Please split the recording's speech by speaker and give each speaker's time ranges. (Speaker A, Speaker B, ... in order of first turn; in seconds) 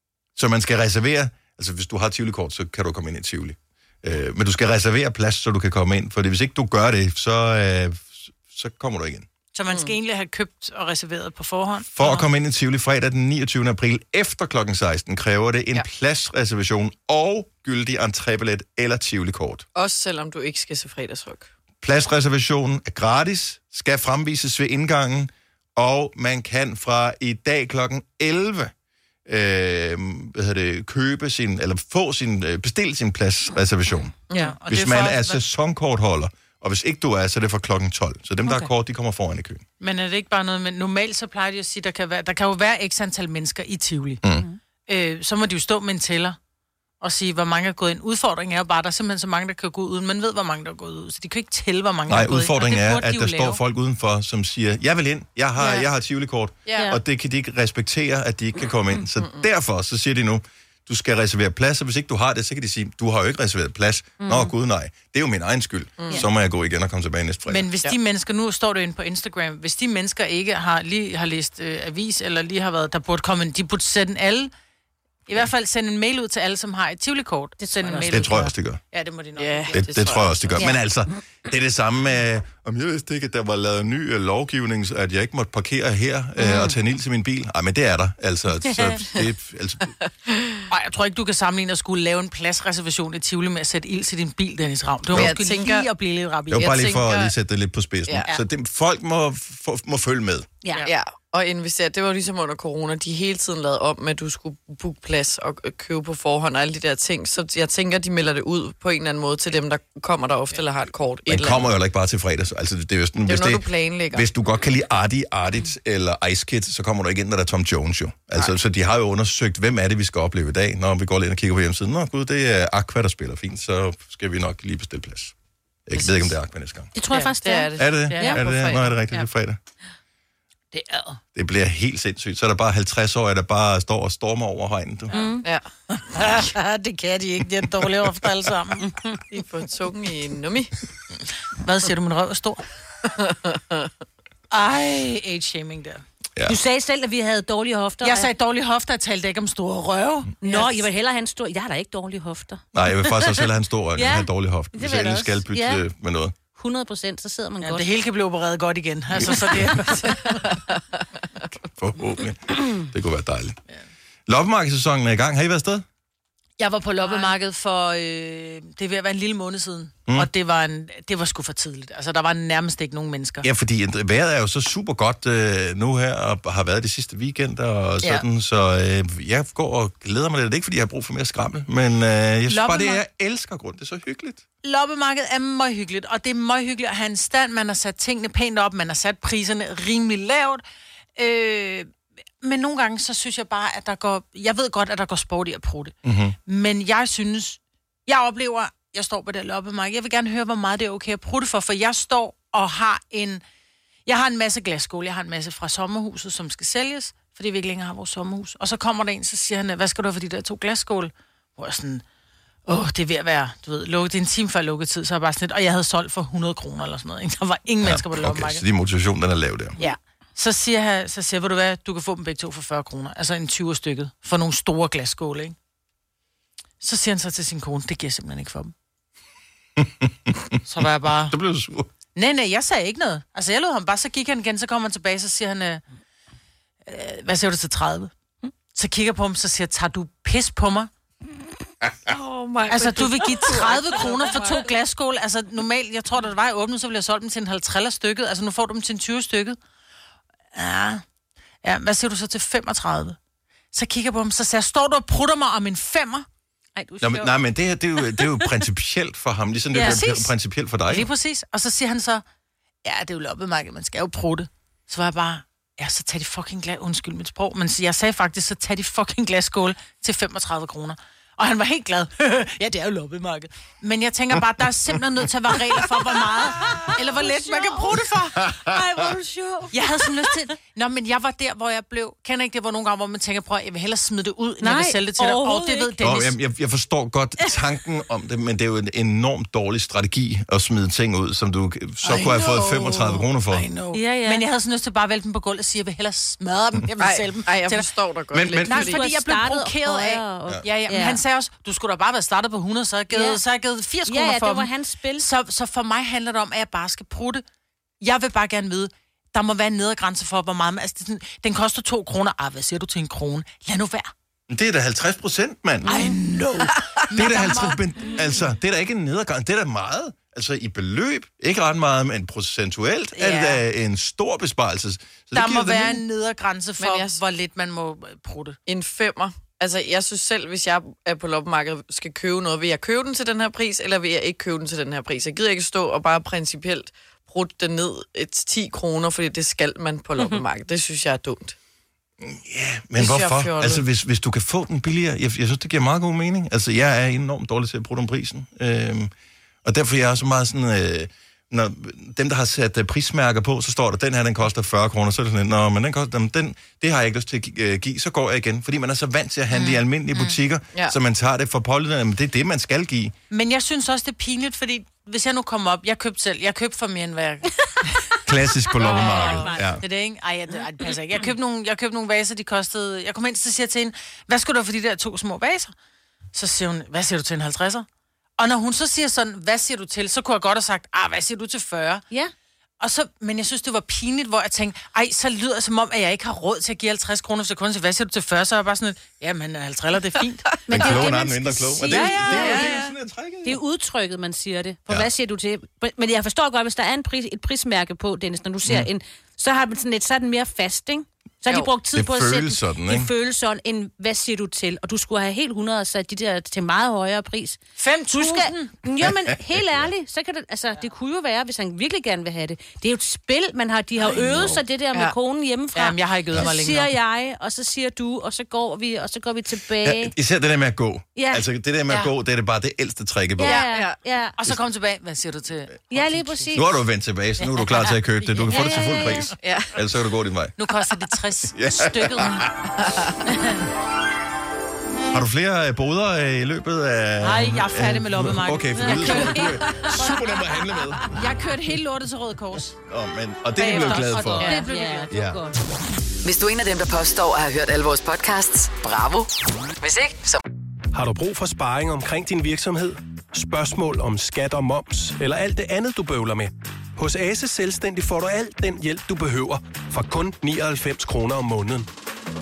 Speaker A: 0.3-9.3, 11.8-19.6, 21.8-28.7, 29.2-39.6, 52.1-67.7, 78.0-78.8, 79.7-90.0, 96.5-100.5, 111.2-125.3, 125.9-126.9, 127.8-129.6, 131.3-135.2, 152.7-156.4, 159.2-159.7, 161.6-163.6, 164.3-165.8, 173.4-184.4, 196.0-196.3, 217.8-219.7, 229.8-231.9, 257.0-261.1, 278.4-279.1, 286.0-293.7, 298.3-298.8, 314.5-315.9, 317.1-326.0, 342.2-349.1, 349.6-363.1, 368.2-369.8, 390.7-393.6, 401.9-403.1, 409.0-409.9, 419.8-423.6, 426.5-430.6, 431.5-432.7, 435.1-441.1, 442.9-444.5, 445.1-445.5
Speaker B: 9.5-12.3, 34.3-35.4, 39.8-44.2, 44.9-46.4, 47.0-53.6, 67.5-74.5, 75.3-80.2, 90.7-96.8, 127.1-127.4, 128.1-129.2, 130.7-131.2, 135.1-135.4, 135.9-138.9, 141.6-142.6, 144.5-146.0, 148.0-150.9, 157.6-160.6, 166.6-173.5, 182.5-183.0, 184.6-190.6, 191.2-191.9, 192.4-195.9, 196.4-203.4, 204.1-212.0, 212.7-218.6, 219.8-225.6, 226.8-228.7, 230.7-231.3, 232.1-235.8, 236.8-238.1, 238.7-240.9, 242.7-249.6, 250.5-251.0, 251.6-253.2, 253.7-256.2, 259.7-260.3, 260.9-262.2, 262.8-278.4, 279.7-286.3, 292.0-297.9, 298.6-307.4, 308.0-314.1, 315.9-317.8, 323.2-323.5, 325.3-328.6, 359.5-359.8, 363.3-368.1, 368.8-375.7, 376.3-377.9, 378.4-382.0, 382.8-392.8, 407.8-408.7, 414.0-414.4, 415.7-416.9, 424.4-426.5, 427.4-429.2, 430.6-432.4, 433.2-433.6, 437.2-440.2, 441.1-442.8, 443.6-445.1
Speaker C: 19.7-21.5, 34.3-34.5, 56.6-56.9, 59.2-59.5, 66.0-66.2, 79.4-80.7, 95.1-95.9, 96.5-97.3, 100.8-111.7, 113.2-114.3, 125.9-126.3, 127.4-128.9, 139.3-140.7, 143.2-143.9, 242.1-244.7, 297.0-299.0, 326.8-327.2, 328.7-341.5, 342.9-343.8, 369.0-369.6, 390.7-391.0, 392.1-392.9, 423.4-424.0, 429.4-429.7, 432.8-433.1
Speaker D: 64.2-64.5, 77.6-78.0, 86.4-86.7, 126.9-128.3, 135.1-135.4, 138.8-139.2, 146.4-148.3, 150.4-153.4, 154.0-155.8, 156.5-157.9, 167.1-167.3, 256.8-257.3, 258.1-258.4, 259.7-260.0, 276.6-280.4, 284.6-286.0, 293.9-294.4, 298.7-301.2, 303.1-303.4, 304.1-305.3, 368.9-369.8, 390.7-392.8, 393.4-407.6, 408.1-420.1, 421.1-421.4, 423.4-424.3, 425.9-426.7, 428.4-429.3, 438.9-439.6, 443.6-445.6
Speaker E: 446.2-449.3, 449.8-450.4
Speaker F: 450.9-461.9